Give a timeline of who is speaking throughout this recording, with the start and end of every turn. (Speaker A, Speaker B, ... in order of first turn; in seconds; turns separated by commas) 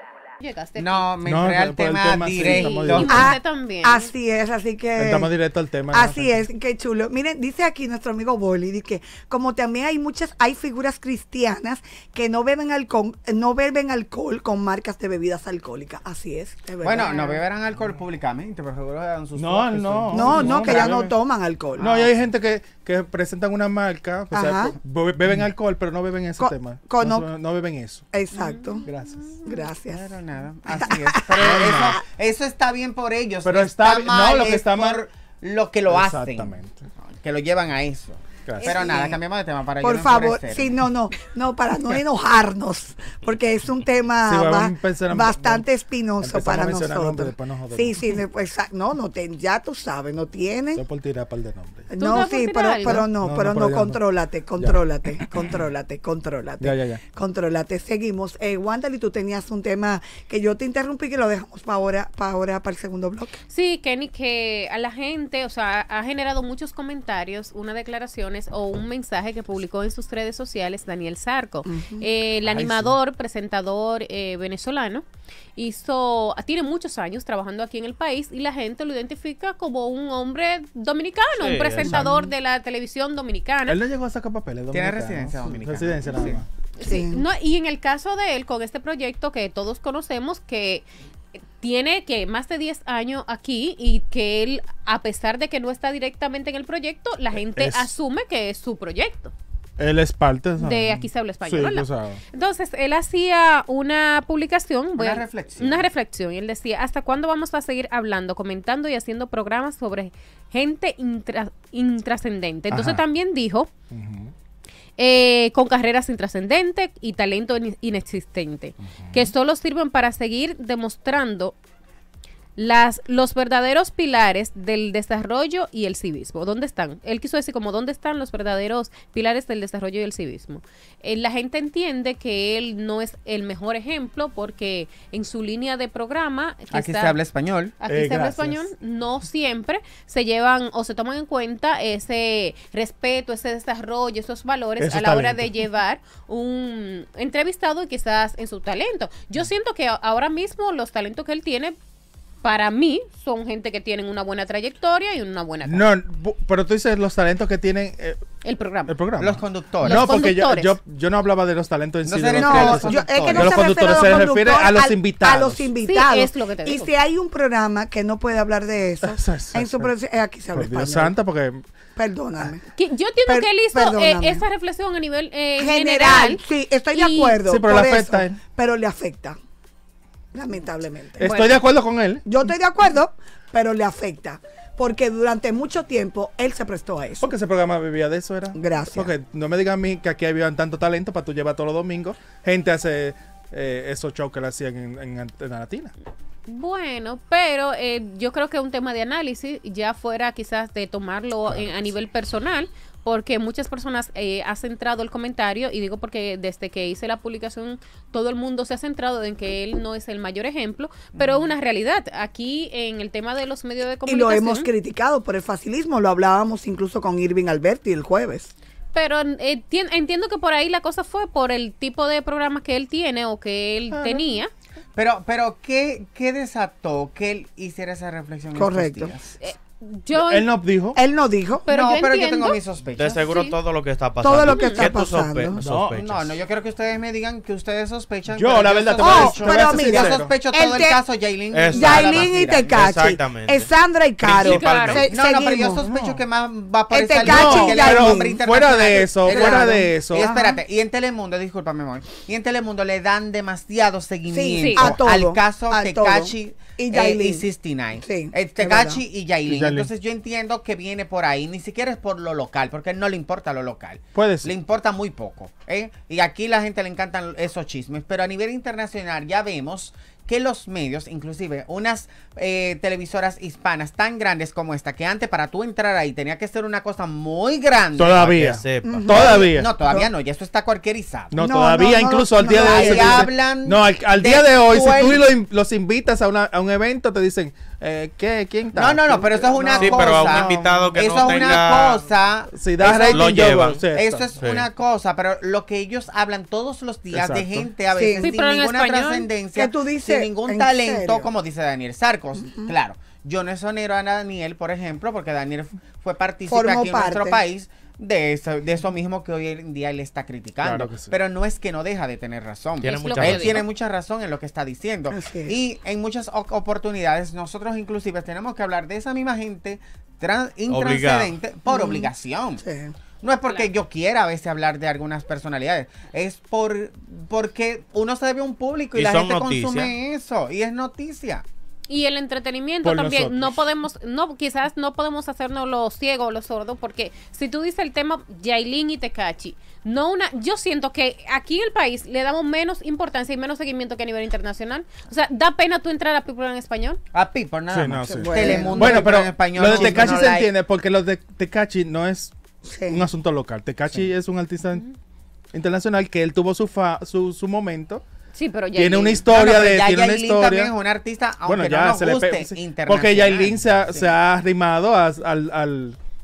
Speaker A: 0.4-1.1, Speaker B: 0.8-3.2, Speaker C: 1.2-3.3, Speaker A: 2.4-4.1, Speaker D: 3.0-5.3, Speaker C: 5.0-6.4, Speaker D: 5.9-17.3, Speaker B: 16.8-21.1, Speaker A: 17.0-17.4, Speaker C: 19.4-21.1, Speaker D: 20.1-21.9, Speaker B: 21.8-22.1, Speaker C: 21.8-28.1, Speaker D: 24.3-24.7, Speaker D: 26.4-27.3, Speaker D: 28.1-28.9, Speaker A: 28.3-29.4, Speaker C: 28.8-29.2, Speaker D: 29.4-30.1, Speaker B: 29.5-40.7, Speaker D: 30.7-32.0, Speaker C: 31.4-32.0, Speaker C: 33.4-35.0, Speaker C: 35.9-36.9, Speaker C: 38.5-38.7, Speaker A: 38.6-39.0, Speaker D: 38.6-39.2, Speaker D: 39.8-50.8, Speaker C: 44.2-45.7, Speaker C: 46.2-48.2, Speaker C: 50.7-51.9, Speaker D: 51.9-63.4, Speaker A: 52.0-53.1, Speaker C: 52.9-54.0, Speaker C: 54.6-55.3, Speaker C: 56.6-57.0, Speaker A: 63.5-75.0, Speaker D: 71.6-72.1, Speaker C: 72.4-72.9, Speaker A: 75.5-83.8, Speaker E: 81.4-82.0, Speaker C: 81.8-82.1, Speaker D: 82.0-82.3, Speaker C: 83.7-86.5, Speaker B: 84.7-86.4, Speaker A: 86.8-90.8, Speaker D: 86.8-87.2, Speaker A: 91.6-99.3, Speaker C: 97.5-97.9, Speaker C: 99.8-102.2, Speaker A: 100.6-113.7, Speaker B: 105.0-105.8, Speaker C: 112.7-113.0, Speaker C: 113.9-114.3, Speaker A: 115.0-121.5, Speaker C: 118.9-119.3, Speaker A: 122.5-137.2, Speaker B: 136.7-137.8, Speaker A: 137.8-151.7, Speaker C: 137.8-138.6, Speaker C: 144.8-145.5, Speaker A: 152.4-155.9, Speaker C: 155.6-158.2, Speaker A: 158.4-158.9, Speaker C: 158.9-165.7, Speaker B: 159.2-160.2, Speaker A: 159.8-160.8, Speaker B: 162.0-163.5, Speaker D: 162.3-171.2, Speaker A: 165.8-166.9, Speaker C: 169.0-169.9, Speaker C: 170.5-171.6, Speaker D: 171.9-172.6, Speaker A: 172.7-177.4, Speaker D: 173.2-174.4, Speaker D: 175.6-179.4, Speaker C: 177.4-178.4, Speaker D: 180.3-181.3, Speaker C: 181.2-182.2, Speaker A: 181.2-181.6, Speaker D: 182.2-187.3, Speaker C: 187.2-195.9, Speaker D: 188.5-189.1, Speaker A: 196.5-214.7, Speaker B: 211.1-211.4, Speaker D: 214.1-218.5, Speaker A: 218.9-224.5, Speaker C: 223.9-224.2, Speaker B: 224.9-229.3, Speaker D: 228.5-229.2, Speaker A: 229.4-230.5, Speaker C: 230.1-231.0, Speaker D: 230.9-231.7, Speaker A: 231.7-232.6, Speaker B: 231.7-233.2, Speaker E: 232.9-236.3, Speaker A: 233.2-233.6, Speaker D: 234.2-235.6, Speaker A: 234.5-234.9, Speaker C: 235.6-236.0, Speaker B: 235.9-242.8, Speaker C: 238.3-240.3, Speaker D: 239.0-241.0, Speaker E: 241.5-243.7, Speaker D: 241.7-245.8, Speaker E: 244.2-245.1, Speaker A: 244.4-245.0, Speaker B: 245.0-278.2, Speaker C: 245.8-246.2, Speaker D: 246.9-250.6, Speaker C: 247.2-250.3, Speaker D: 254.3-257.4, Speaker A: 254.6-254.8, Speaker C: 254.8-255.1, Speaker D: 258.0-259.0, Speaker C: 259.4-259.9, Speaker C: 264.1-264.5, Speaker C: 277.9-279.7, Speaker E: 278.1-279.1, Speaker B: 278.8-281.4, Speaker D: 278.8-280.1, Speaker C: 281.3-291.5, Speaker D: 281.4-283.3, Speaker B: 282.6-285.3, Speaker B: 288.7-322.6, Speaker E: 289.8-292.0, Speaker C: 292.5-294.4, Speaker E: 292.8-293.8, Speaker E: 294.4-294.7, Speaker C: 297.1-297.7, Speaker D: 297.9-298.3, Speaker A: 298.2-299.3, Speaker D: 299.5-301.3, Speaker D: 302.4-302.7, Speaker D: 306.5-307.4, Speaker C: 310.6-311.1, Speaker E: 312.8-313.6, Speaker A: 312.8-313.6, Speaker D: 315.1-315.6, Speaker E: 320.7-321.4, Speaker D: 321.7-322.9, Speaker B: 323.2-331.4, Speaker E: 328.9-329.9, Speaker A: 331.9-347.0, Speaker C: 332.8-333.6, Speaker B: 347.1-350.5, Speaker C: 347.7-352.3, Speaker D: 348.1-349.1, Speaker D: 349.7-350.1, Speaker D: 352.7-353.1, Speaker C: 352.9-354.8, Speaker C: 355.5-358.0, Speaker A: 358.3-359.2, Speaker C: 358.7-360.7, Speaker B: 359.2-364.1, Speaker C: 361.4-366.0